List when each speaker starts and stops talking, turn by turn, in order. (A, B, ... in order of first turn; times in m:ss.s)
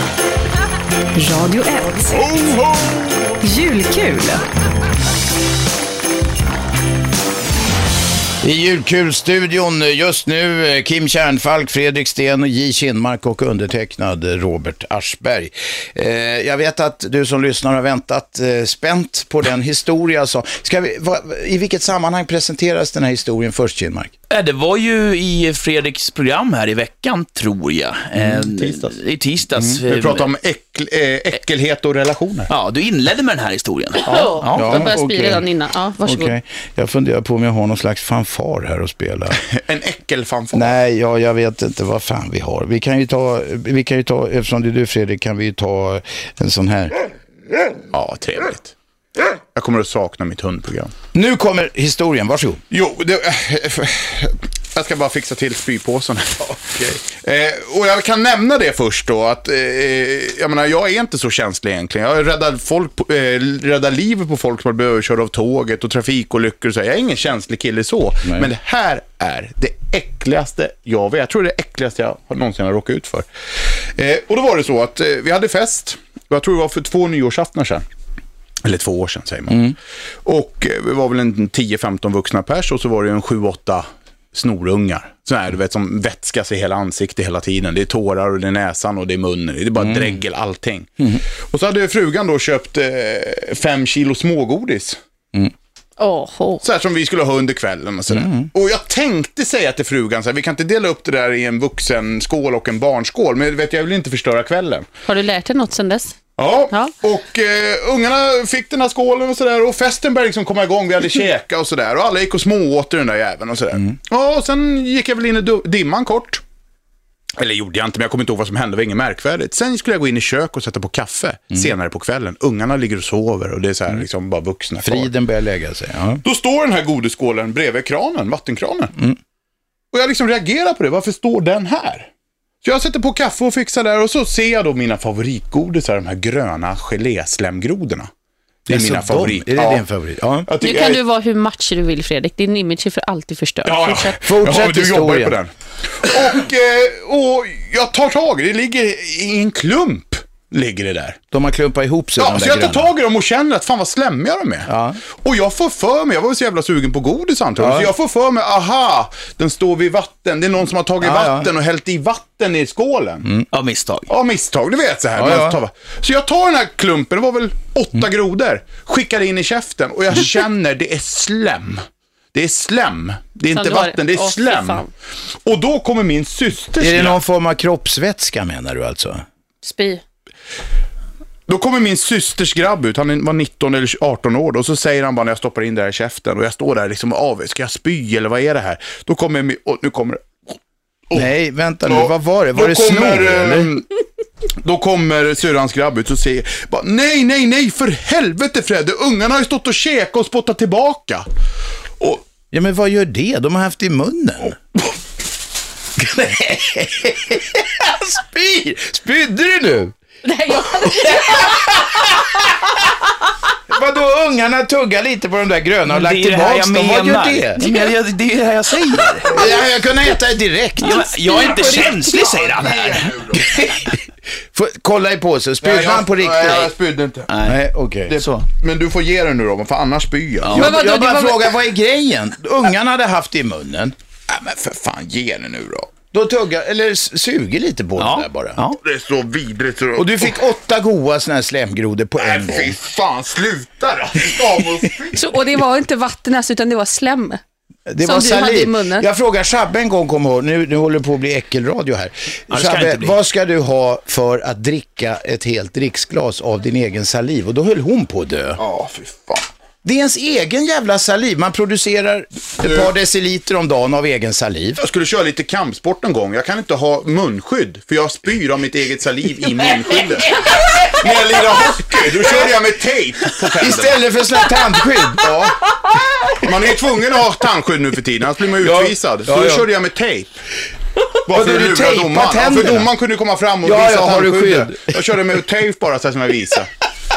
0:01.1-0:02.4 A
0:03.4-0:04.4 A
0:08.4-0:24.1 B
0:24.3-0:30.3 C
0:29.9-0:32.5 D
0:32.5-0:34.8 C
0:34.0-0:36.3 E
0:34.4-0:35.4 B
0:34.6-0:34.9 D
0:36.0-0:39.4 B
0:39.4-0:40.7 D
0:40.5-0:47.0 B
0:47.9-0:48.7 D
0:49.5-0:50.9 D
0:51.1-0:52.6 B
0:52.7-0:56.5 D
0:56.4-0:57.0 B
0:57.1-1:13.2 D
1:13.8-1:17.8 D
1:18.6-1:35.0 D
1:19.5-1:19.8 B
1:29.8-1:30.1 B
1:36.0-1:36.6 E
1:36.6-1:44.8 D
1:38.1-1:38.5 B
1:45.0-1:46.1 E
1:46.4-1:56.4 D
1:57.4-2:05.1 D
2:04.8-2:06.2 B
2:06.2-2:08.9 D
2:09.9-2:12.1 D
2:12.6-2:18.1 D
2:18.7-2:19.8 D
2:18.7-2:20.5 B
2:20.4-2:21.0 D
2:20.6-2:24.2 E
2:23.6-2:31.2 D
2:24.2-2:25.4 B
2:31.3-2:32.9 B
2:32.2-2:34.7 D
2:34.7-2:35.0 B
2:35.2-2:43.3 D
2:37.6-2:37.9 B
2:41.0-2:41.5 B
2:43.5-2:44.1 C
2:44.1-2:54.8 D
2:45.2-2:45.6 B
2:53.5-2:54.9 E
2:55.4-2:57.2 D
2:56.8-2:59.2 B
2:59.6-3:00.0 E
3:01.5-3:10.6 D
3:11.1-3:13.7 B
3:11.9-3:13.8 D
3:14.6-3:21.2 D
3:22.5-3:24.6 B
3:26.0-3:29.9 B
3:30.2-3:32.5 E
3:30.6-3:32.4 B
3:33.7-3:37.6 B
3:35.9-3:39.4 C
3:39.3-3:42.2 B
3:40.8-3:43.7 C
3:41.0-3:42.3 E
3:42.5-3:43.4 D
3:43.6-3:44.0 B
3:44.5-3:46.7 B
3:45.6-3:47.3 D
3:47.3-3:47.6 C
3:47.4-3:48.2 B
3:48.1-3:50.7 D
3:48.1-3:48.4 C
3:50.4-3:50.7 C
3:50.5-3:53.9 B
3:50.6-3:51.4 E
3:54.3-3:55.9 D
3:56.1-3:58.6 B
3:58.0-3:58.8 C
3:58.8-4:00.4 D
4:00.0-4:02.8 B
4:02.2-4:05.3 D
4:05.2-4:07.4 E
4:07.9-4:18.6 B
4:08.0-4:09.0 E
4:12.5-4:13.2 C
4:18.6-4:19.5 D
4:19.8-4:24.8 B
4:22.6-4:22.9 D
4:24.8-4:34.0 D
4:29.7-4:30.9 B
4:33.6-4:35.4 B
4:35.2-4:35.6 D
4:36.4-4:40.3 D
4:38.6-4:39.6 B
4:41.2-4:46.7 D
4:41.3-4:42.9 B
4:43.6-4:45.0 B